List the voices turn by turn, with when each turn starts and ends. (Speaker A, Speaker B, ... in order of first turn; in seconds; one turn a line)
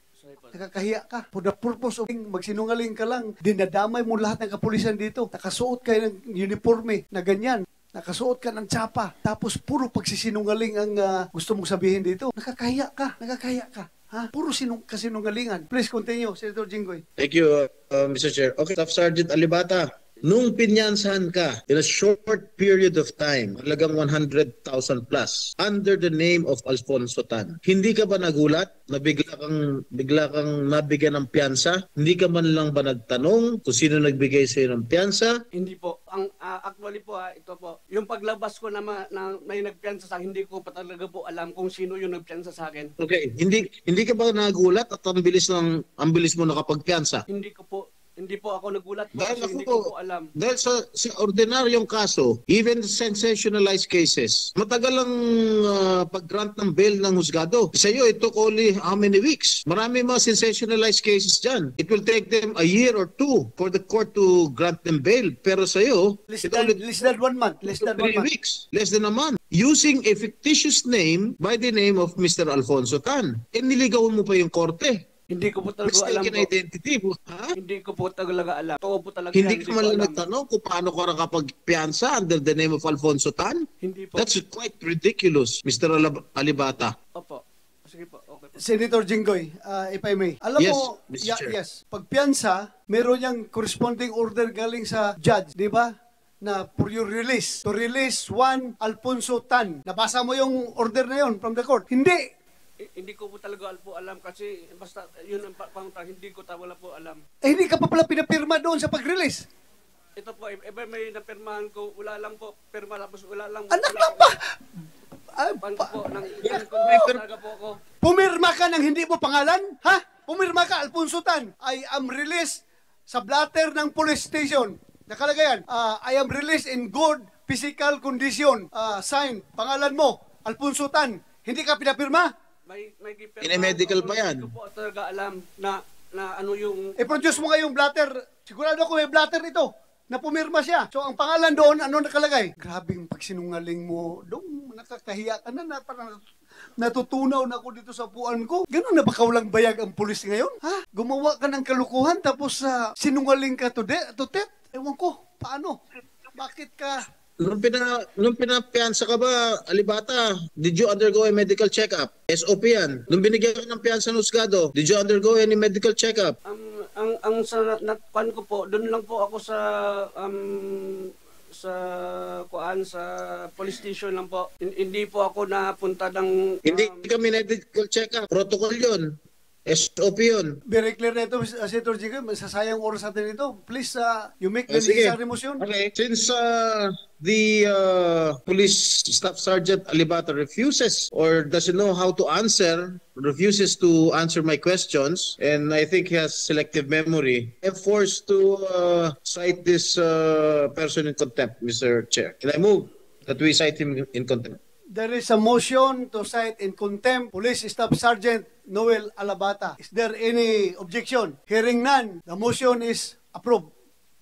Speaker A: 0.2-0.6
Speaker B: 0.5-17.0
Speaker C: 17.2-35.3
Speaker A: 35.6-42.9
Speaker C: 43.0-47.2
Speaker A: 47.3-50.3
Speaker C: 49.1-67.1
Speaker B: 66.3-68.3
Speaker C: 67.7-75.0
Speaker A: 75.3-76.5
Speaker C: 75.8-77.6
Speaker A: 77.6-80.2
Speaker C: 79.3-87.0
Speaker A: 83.8-84.3
Speaker A: 87.2-88.6
Speaker B: 88.6-102.2
Speaker C: 90.6-91.5
Speaker A: 102.8-107.2
Speaker B: 107.4-109.5
Speaker A: 110.2-114.3
Speaker B: 113.7-114.8
Speaker B: 115.4-115.9
Speaker A: 115.6-117.8
Speaker C: 116.4-117.2
Speaker B: 118.0-132.3
Speaker A: 132.7-137.5
Speaker C: 133.4-134.5
Speaker B: 137.0-146.2
Speaker B: 146.8-155.8
Speaker B: 156.3-157.0
Speaker C: 157.4-166.4
Speaker A: 166.5-177.0
Speaker C: 176.7-180.6
Speaker B: 180.7-185.6
Speaker C: 184.7-204.6
Speaker B: 204.9-213.7